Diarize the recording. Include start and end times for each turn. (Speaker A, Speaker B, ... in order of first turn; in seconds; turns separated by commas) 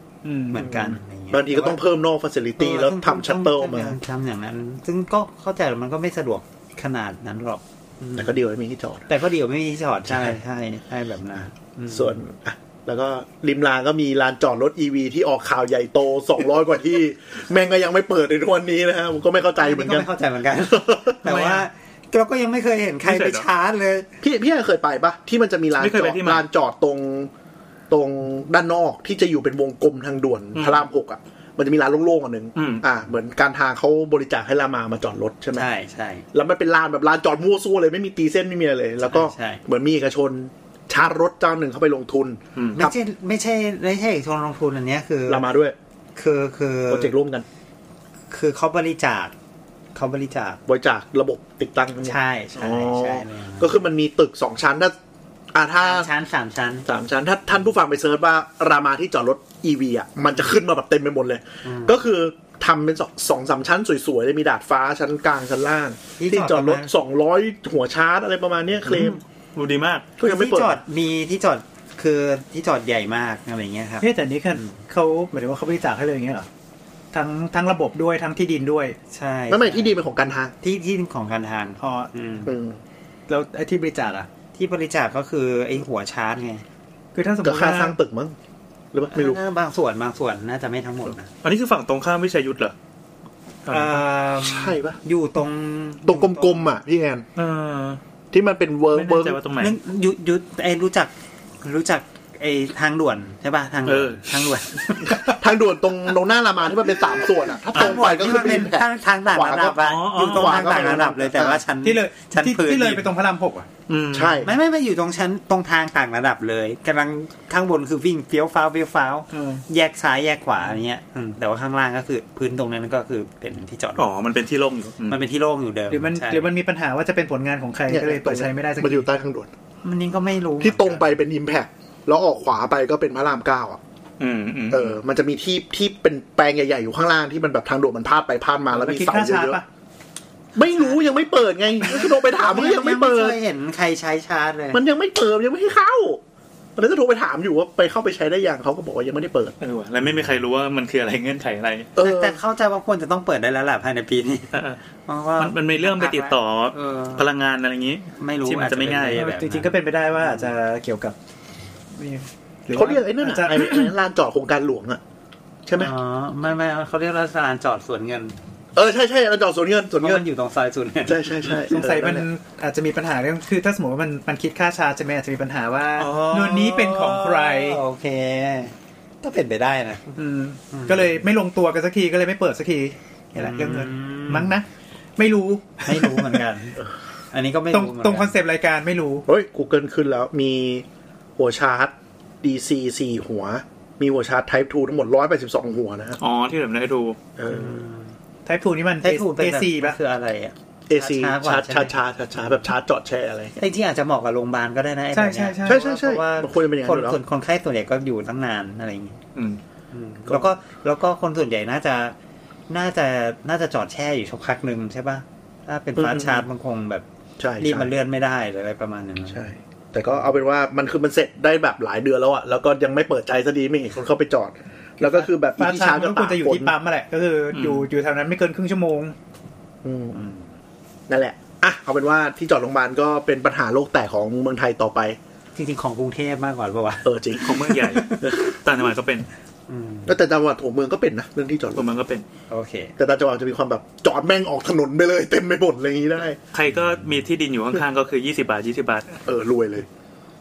Speaker A: 0.2-0.6, Speaker B: 0.5-1.8, Speaker C: 0.6-4.0, Speaker B: 2.6-8.4, Speaker C: 8.2-9.1, Speaker B: 9.1-12.2, Speaker C: 10.1-10.3, Speaker C: 11.9-20.1, Speaker B: 19.6-24.1, Speaker C: 20.7-21.5, Speaker D: 23.0-23.5, Speaker C: 24.2-27.3, Speaker D: 25.8-26.4, Speaker C: 27.9-35.7, Speaker D: 30.6-30.8, Speaker D: 32.6-32.8, Speaker B: 35.5-36.2, Speaker C: 36.3-42.9, Speaker B: 39.0-39.6, Speaker B: 42.8-45.4, Speaker C: 45.3-45.8, Speaker B: 46.2-47.1, Speaker C: 46.9-47.5, Speaker B: 48.3-49.3, Speaker B: 50.0-50.6, Speaker C: 50.7-55.0, Speaker B: 52.0-53.8, Speaker C: 55.5-56.1, Speaker B: 55.8-56.9, Speaker C: 56.9-69.2, Speaker B: 61.6-62.0, Speaker B: 66.2-66.9, Speaker B: 68.9-69.2, Speaker D: 69.5-70.1, Speaker C: 70.2-70.8, Speaker B: 70.2-74.8, Speaker A: 74.0-76.5, Speaker A: 77.1-79.0, Speaker B: 79.1-80.0, Speaker C: 79.5-80.5, Speaker B: 80.6-82.5, Speaker A: 81.8-82.1, Speaker C: 82.5-82.8, Speaker A: 83.3-84.3, Speaker B: 84.5-86.6, Speaker A: 87.1-88.0, Speaker C: 87.4-88.3, Speaker C: 88.9-89.4, Speaker B: 89.1-91.3, Speaker D: 91.4-92.7, Speaker D: 93.7-94.0, Speaker B: 93.7-96.7, Speaker C: 94.4-95.0, Speaker C: 96.0-97.2, Speaker D: 97.4-98.0, Speaker C: 98.3-99.4, Speaker D: 98.9-99.8, Speaker B: 99.6-105.3, Speaker D: 103.9-104.2, Speaker C: 105.3-111.6, Speaker B: 107.7-113.1, Speaker D: 109.8-111.2, Speaker A: 111.8-113.7, Speaker D: 113.9-114.4, Speaker C: 114.1-114.5, Speaker B: 114.4-124.0, Speaker A: 119.3-119.6, Speaker D: 124.0-125.2, Speaker B: 125.1-126.5, Speaker A: 125.9-129.1, Speaker C: 127.9-129.5, Speaker B: 129.8-131.1, Speaker C: 130.6-133.8, Speaker D: 134.2-135.0, Speaker C: 134.7-139.6, Speaker A: 138.7-139.7, Speaker C: 140.6-143.4, Speaker B: 141.8-144.8, Speaker C: 144.7-146.2, Speaker C: 146.8-149.6, Speaker D: 149.6-151.9, Speaker C: 152.0-152.4, Speaker B: 152.0-154.5, Speaker D: 154.5-154.8, Speaker B: 155.1-157.3, Speaker D: 155.4-159.3, Speaker B: 158.2-160.5, Speaker A: 159.1-161.2, Speaker A: 161.9-163.9, Speaker C: 162.7-165.0, Speaker C: 165.7-165.9, Speaker B: 165.8-168.3, Speaker C: 168.7-170.2, Speaker B: 170.0-171.7, Speaker C: 171.1-172.3, Speaker A: 171.7-177.8, Speaker B: 176.0-180.2, Speaker A: 180.2-184.7, Speaker B: 180.7-181.2, Speaker B: 183.3-184.6, Speaker A: 185.2-186.4, Speaker B: 185.8-186.8, Speaker B: 187.3-188.3, Speaker A: 187.7-189.3, Speaker C: 189.3-190.9, Speaker C: 191.4-196.2, Speaker D: 196.2-197.2, Speaker C: 197.4-197.8, Speaker B: 197.5-198.1, Speaker A: 198.5-200.0, Speaker B: 199.0-201.9, Speaker C: 200.9-203.6, Speaker B: 203.6-205.8, Speaker A: 205.1-206.5, Speaker C: 205.6-207.2, Speaker B: 206.8-209.2, Speaker D: 209.3-209.6, Speaker B: 209.9-212.2, Speaker B: 212.7-217.1, Speaker C: 216.0-216.4, Speaker C: 217.4-217.9, Speaker B: 217.6-219.4, Speaker C: 219.3-226.8, Speaker A: 225.0-229.2, Speaker D: 227.5-227.9, Speaker C: 229.8-230.3, Speaker B: 230.1-230.5, Speaker C: 231.1-235.2, Speaker B: 235.6-238.6, Speaker C: 237.0-238.5, Speaker D: 237.4-239.3, Speaker B: 239.7-240.2, Speaker C: 240.1-241.9, Speaker D: 241.8-242.2, Speaker B: 242.5-242.9, Speaker C: 243.0-246.4, Speaker D: 246.5-249.2, Speaker C: 249.3-249.9